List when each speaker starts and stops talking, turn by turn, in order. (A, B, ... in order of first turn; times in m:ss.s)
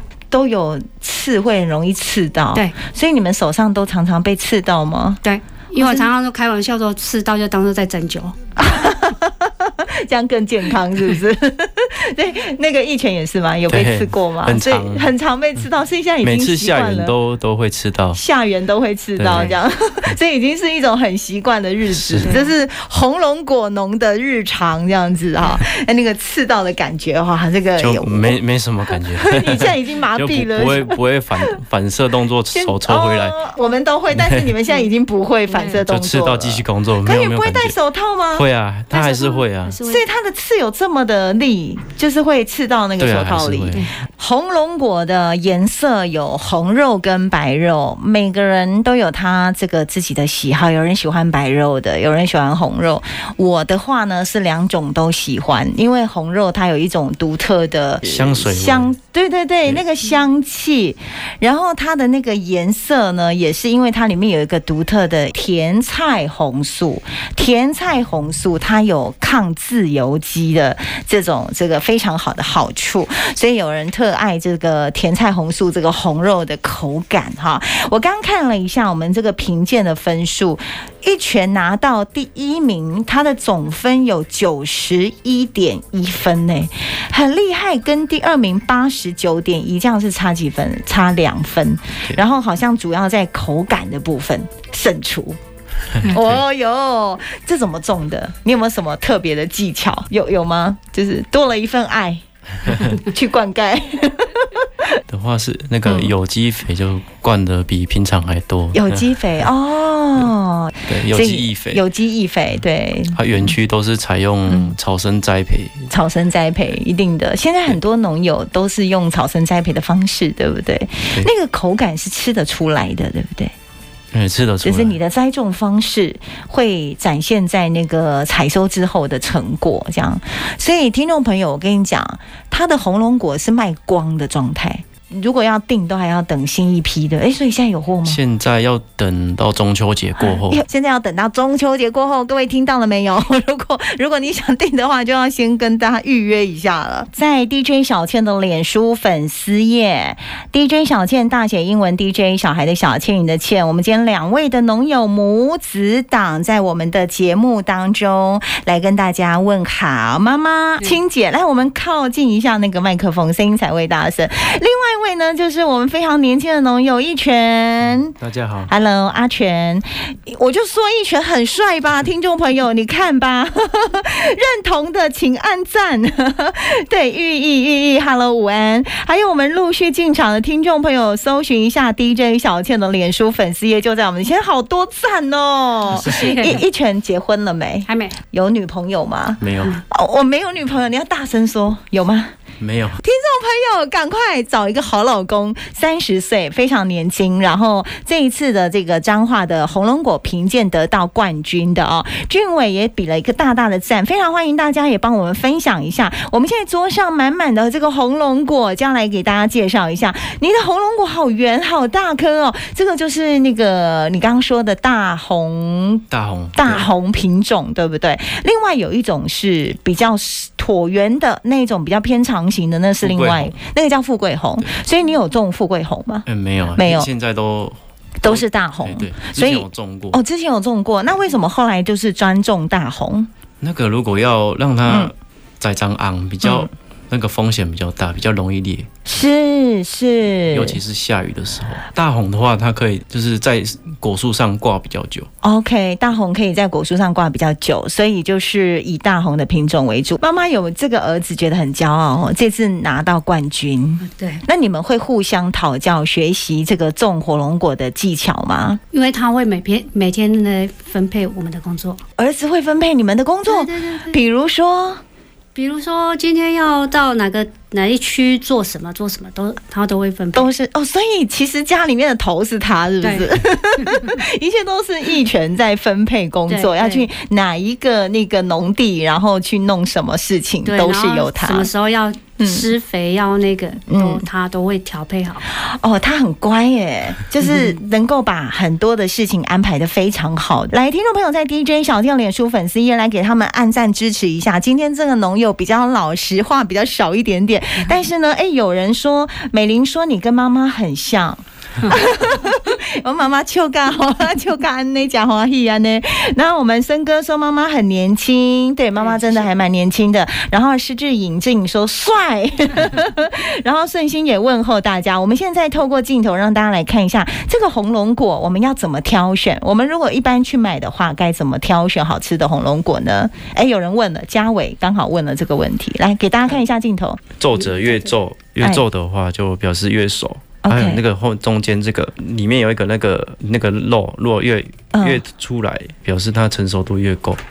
0:00.3-0:05.2 A
0:05.2-0:08.4 B
0:05.8-0:06.1 A
0:08.6-0:17.2 A
0:13.7-0:15.1 C
0:16.2-0:18.2 C
0:18.1-0:28.4 A
0:19.2-0:19.5 C
0:21.9-0:22.3 C
0:27.8-0:33.4 C
0:28.9-0:31.0 A
0:32.5-1:35.4 A
0:34.1-0:34.6 C
0:35.5-0:35.8 B
0:35.8-0:37.8 C
0:38.3-0:39.8 C
0:39.6-0:40.0 B
0:43.0-0:43.9 C
0:58.0-0:58.9 C
1:35.9-1:36.4 C
1:36.0-1:45.0 A
1:45.1-1:49.5 C
1:45.8-1:46.1 A
1:48.7-1:53.5 A
1:50.9-1:51.8 C
1:53.1-1:55.9 C
1:54.5-1:54.8 A
1:55.9-2:03.5 A
2:04.1-2:05.0 C
2:04.6-2:18.2 A
2:18.1-2:20.6 C
2:20.2-2:48.2 A
2:48.2-2:48.7 C
2:48.7-3:12.3 A
3:05.9-3:06.3 C
3:06.0-3:06.6 B
3:07.9-3:08.2 B
3:09.4-3:09.7 C
3:12.6-3:13.0 C
3:13.0-3:47.1 A
3:36.1-3:36.9 C
3:43.0-3:43.5 C
3:46.3-3:50.2 C
3:48.2-3:53.3 A
3:53.6-3:58.9 C
3:54.9-3:55.1 A
3:56.4-3:56.7 A
3:59.1-4:00.8 A
4:00.5-4:05.3 C
4:05.4-4:18.8 A
4:14.0-4:14.4 B
4:18.9-4:22.0 B
4:22.2-4:25.0 A
4:23.5-4:24.2 B
4:25.6-4:30.5 B
4:30.3-4:41.7 A
4:33.0-4:34.2 B
4:36.5-4:37.1 B
4:40.6-4:45.4 B
4:42.4-4:42.7 A
4:43.9-4:44.2 A
4:45.5-5:27.2 A
5:09.0-5:09.5 B
5:27.4-5:37.4 C
5:30.6-5:31.0 A
5:34.9-5:35.2 A